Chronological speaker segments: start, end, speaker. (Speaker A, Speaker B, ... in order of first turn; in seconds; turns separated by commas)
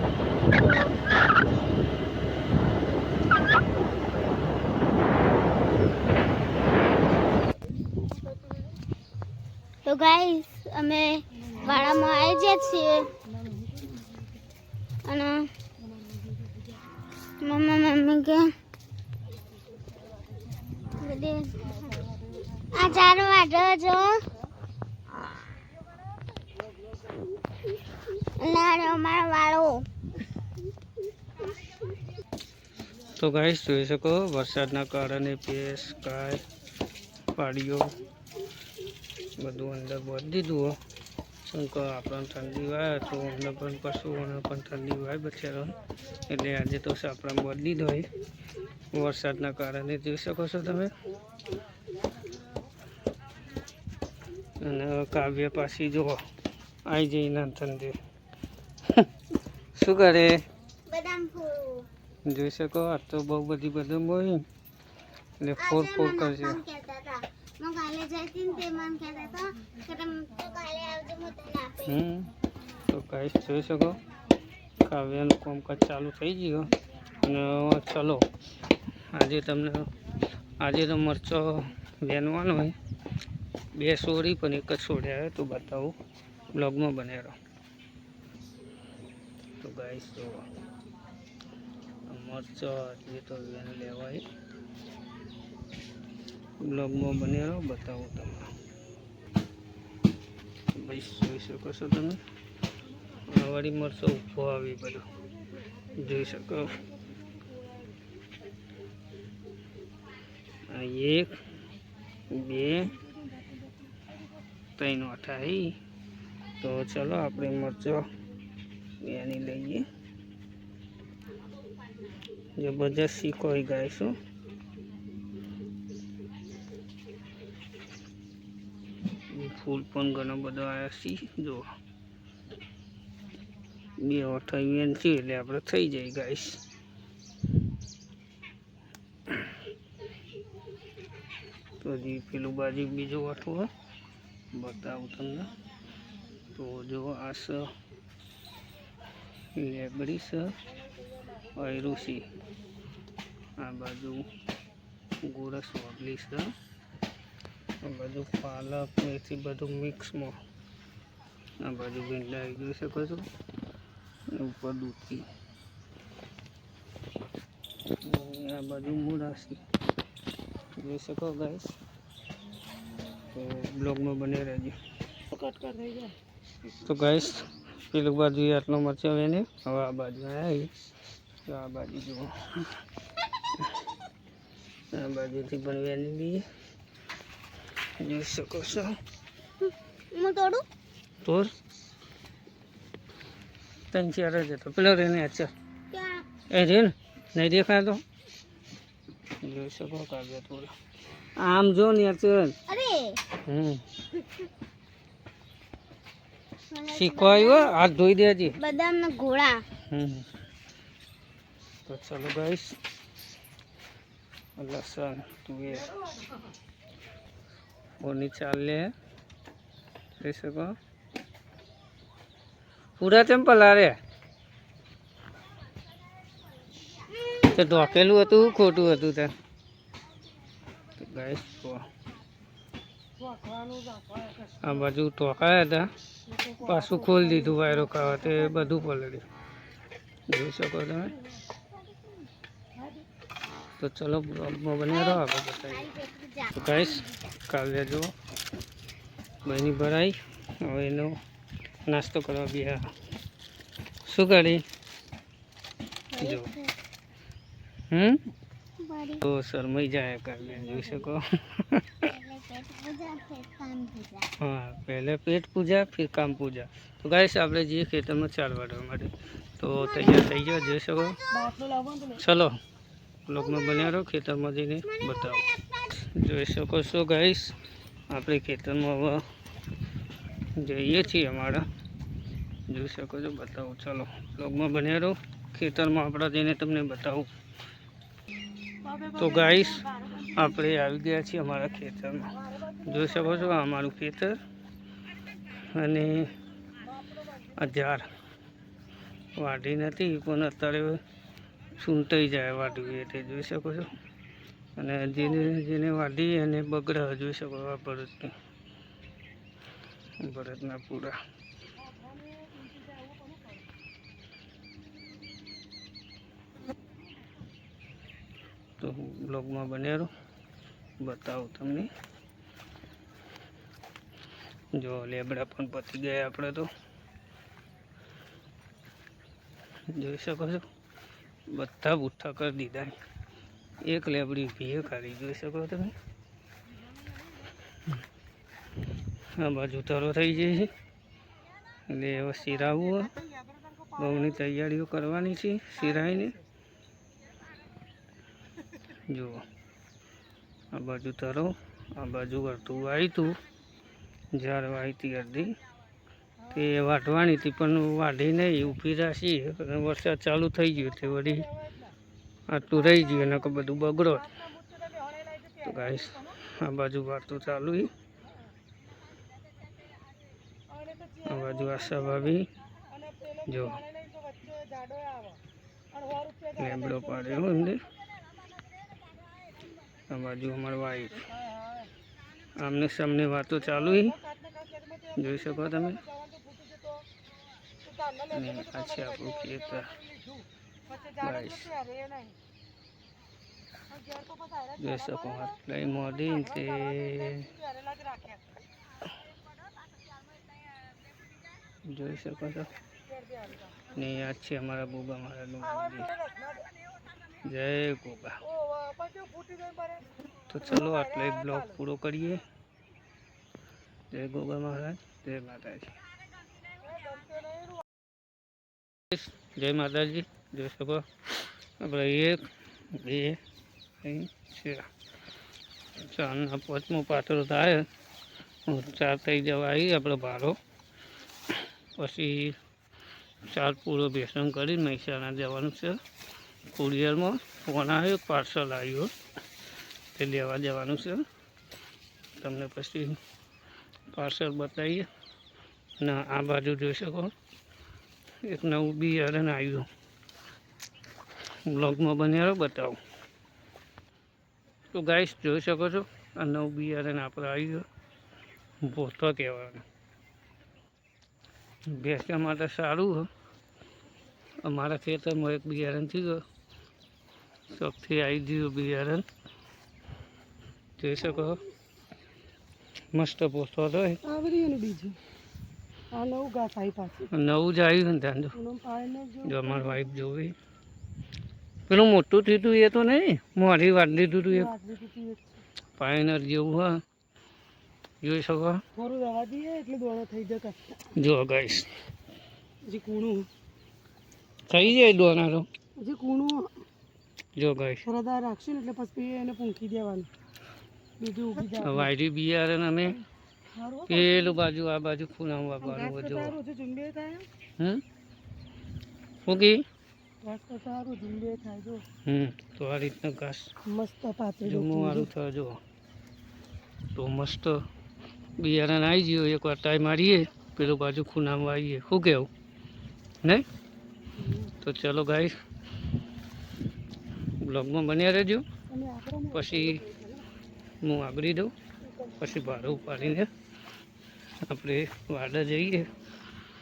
Speaker A: 0.5-0.9, Speaker B: 8.0-8.7, Speaker A: 9.9-13.1, Speaker B: 13.2-14.3, Speaker A: 15.1-15.5, Speaker B: 15.8-16.8, Speaker A: 17.4-18.5, Speaker A: 21.0-21.6, Speaker B: 21.7-22.7, Speaker A: 22.7-24.2, Speaker A: 28.4-29.9, Speaker C: 33.1-36.4, Speaker C: 37.4-37.9, Speaker C: 39.4-40.8, Speaker C: 41.5-45.8, Speaker C: 46.3-48.1, Speaker C: 48.9-50.9, Speaker C: 54.6-56.2, Speaker C: 56.9-58.0, Speaker C: 59.7-60.4, Speaker A: 60.9-61.9, Speaker C: 62.3-64.5, Speaker C: 65.4-66.6, Speaker A: 65.6-72.0, Speaker C: 71.9-72.3, Speaker C: 72.9-74.0, Speaker C: 74.8-78.3, Speaker C: 79.1-79.9, Speaker C: 80.6-82.8, Speaker C: 83.8-86.0, Speaker C: 86.5-87.4, Speaker C: 89.6-90.4, Speaker C: 92.1-94.2, Speaker C: 96.6-98.5, Speaker C: 100.8-102.2, Speaker C: 103.3-105.1, Speaker B: 105.2-108.0, Speaker C: 106.0-106.7, Speaker C: 110.7-111.3, Speaker C: 112.3-112.9, Speaker B: 112.7-114.1, Speaker C: 114.8-115.8, Speaker C: 116.6-118.1, Speaker C: 119.0-119.8, Speaker C: 122.6-124.2, Speaker C: 129.3-131.7, Speaker C: 134.0-136.6, Speaker C: 139.3-139.5, Speaker C: 141.8-143.7, Speaker C: 144.5-145.5, Speaker C: 146.6-147.7, Speaker C: 149.6-150.5, Speaker C: 151.6-152.3, Speaker C: 153.6-154.3, Speaker C: 155.2-156.5, Speaker C: 157.8-160.4, Speaker C: 161.6-163.3, Speaker C: 164.3-165.2, Speaker C: 168.0-169.6, Speaker C: 170.8-171.7, Speaker C: 173.3-174.8, Speaker B: 175.3-176.1, Speaker C: 176.8-180.7, Speaker C: 181.5-182.8, Speaker C: 184.9-186.4, Speaker C: 188.0-188.9, Speaker A: 190.1-190.6, Speaker C: 191.2-191.5, Speaker C: 193.9-195.5, Speaker A: 195.9-196.2, Speaker C: 196.5-198.0, Speaker C: 199.4-200.7, Speaker C: 201.4-202.6, Speaker A: 202.7-203.2, Speaker C: 203.5-203.8, Speaker A: 206.7-207.8, Speaker C: 206.9-208.6, Speaker A: 208.6-209.6, Speaker C: 209.9-210.3, Speaker C: 211.9-212.8, Speaker C: 214.6-215.9, Speaker C: 218.0-218.9, Speaker C: 220.2-220.8, Speaker C: 223.0-224.0, Speaker C: 227.5-229.3, Speaker C: 231.0-231.8, Speaker B: 233.2-234.8, Speaker C: 234.6-235.9, Speaker B: 236.3-238.7, Speaker C: 236.7-239.3, Speaker C: 240.3-241.1, Speaker B: 242.8-243.0, Speaker C: 243.8-245.9, Speaker A: 244.9-247.2, Speaker C: 246.5-248.1, Speaker C: 249.4-251.1, Speaker C: 251.9-252.8, Speaker C: 254.1-254.6, Speaker A: 256.1-256.7, Speaker C: 256.2-256.5, Speaker C: 257.9-258.2, Speaker A: 258.8-259.2, Speaker C: 259.2-262.1, Speaker A: 262.0-264.3, Speaker C: 264.4-271.2, Speaker B: 271.3-272.2, Speaker C: 272.2-272.6, Speaker C: 273.3-277.6, Speaker A: 273.4-274.0, Speaker A: 274.8-275.9, Speaker C: 278.1-279.2, Speaker C: 280.6-281.7, Speaker C: 282.7-287.3, Speaker B: 288.8-290.4, Speaker C: 289.2-289.8, Speaker C: 290.4-292.3, Speaker B: 292.4-293.4, Speaker C: 292.9-294.4, Speaker C: 295.7-296.3, Speaker B: 296.9-297.7, Speaker C: 297.6-298.1, Speaker C: 299.4-301.0, Speaker C: 301.8-303.9, Speaker C: 304.8-308.4, Speaker C: 310.2-311.2, Speaker B: 311.8-313.7, Speaker C: 318.8-320.1, Speaker C: 321.0-321.9, Speaker C: 324.8-326.7, Speaker C: 329.9-330.6, Speaker C: 331.5-333.0, Speaker C: 333.8-335.9, Speaker C: 339.4-340.7, Speaker C: 341.9-343.1, Speaker B: 343.8-344.0, Speaker C: 344.0-346.4, Speaker B: 346.0-346.4, Speaker C: 349.1-349.4, Speaker C: 350.7-353.4, Speaker C: 354.3-355.6, Speaker C: 356.5-361.5, Speaker B: 361.0-361.9, Speaker C: 362.5-364.3, Speaker B: 362.9-363.3, Speaker B: 364.1-366.4, Speaker C: 365.6-367.9, Speaker B: 370.7-372.4, Speaker C: 371.3-372.5, Speaker B: 372.9-375.4, Speaker C: 373.5-373.8, Speaker B: 375.9-377.7, Speaker C: 376.6-377.8, Speaker C: 380.1-381.3, Speaker B: 381.3-381.9, Speaker C: 382.6-384.2, Speaker B: 383.6-387.0, Speaker C: 385.2-386.0, Speaker B: 387.8-392.4, Speaker C: 388.3-389.9, Speaker C: 391.2-391.7, Speaker B: 393.9-395.6, Speaker C: 394.8-397.5, Speaker B: 396.3-398.4, Speaker C: 401.9-402.7, Speaker B: 403.1-403.8, Speaker C: 403.9-406.1, Speaker B: 405.7-406.7, Speaker C: 407.4-408.4, Speaker B: 408.4-410.1, Speaker C: 410.5-412.4, Speaker B: 410.7-411.7, Speaker C: 414.1-416.0, Speaker B: 416.8-417.8, Speaker C: 419.1-421.1, Speaker C: 421.8-423.4, Speaker C: 424.0-424.9, Speaker C: 426.0-427.9, Speaker C: 428.7-430.6, Speaker C: 431.5-432.6, Speaker C: 433.5-436.0, Speaker C: 436.8-439.1, Speaker C: 440.1-441.2, Speaker C: 442.4-443.2, Speaker C: 444.1-445.1, Speaker C: 446.0-447.3, Speaker C: 448.4-449.9, Speaker C: 451.7-453.0, Speaker C: 454.9-457.9, Speaker C: 458.8-459.9, Speaker C: 461.9-463.3, Speaker C: 464.6-466.4, Speaker C: 467.7-469.2, Speaker C: 471.0-471.6, Speaker C: 473.1-474.2, Speaker B: 474.2-475.2, Speaker B: 476.1-477.3, Speaker C: 477.3-478.6, Speaker B: 478.6-480.1, Speaker C: 479.4-480.6, Speaker C: 481.9-484.7, Speaker B: 484.5-485.6, Speaker C: 486.0-487.0, Speaker C: 488.2-488.8, Speaker B: 488.9-491.1, Speaker C: 491.2-491.9, Speaker B: 492.9-493.5, Speaker C: 494.7-495.7, Speaker B: 496.0-496.7, Speaker C: 497.6-498.0, Speaker B: 498.0-500.3, Speaker B: 501.2-502.1, Speaker C: 501.8-503.2, Speaker B: 503.8-504.6, Speaker C: 504.1-506.6, Speaker B: 505.8-507.5, Speaker C: 509.4-509.8, Speaker B: 510.4-512.0, Speaker C: 512.3-513.7, Speaker B: 513.9-515.3, Speaker C: 514.6-515.8, Speaker C: 517.1-517.8, Speaker C: 518.6-522.5, Speaker B: 524.4-524.7, Speaker C: 524.8-525.6, Speaker C: 527.6-528.6, Speaker B: 528.9-530.5, Speaker C: 529.5-530.0, Speaker C: 531.0-531.7, Speaker B: 532.0-532.4, Speaker C: 532.4-533.5, Speaker C: 534.7-536.1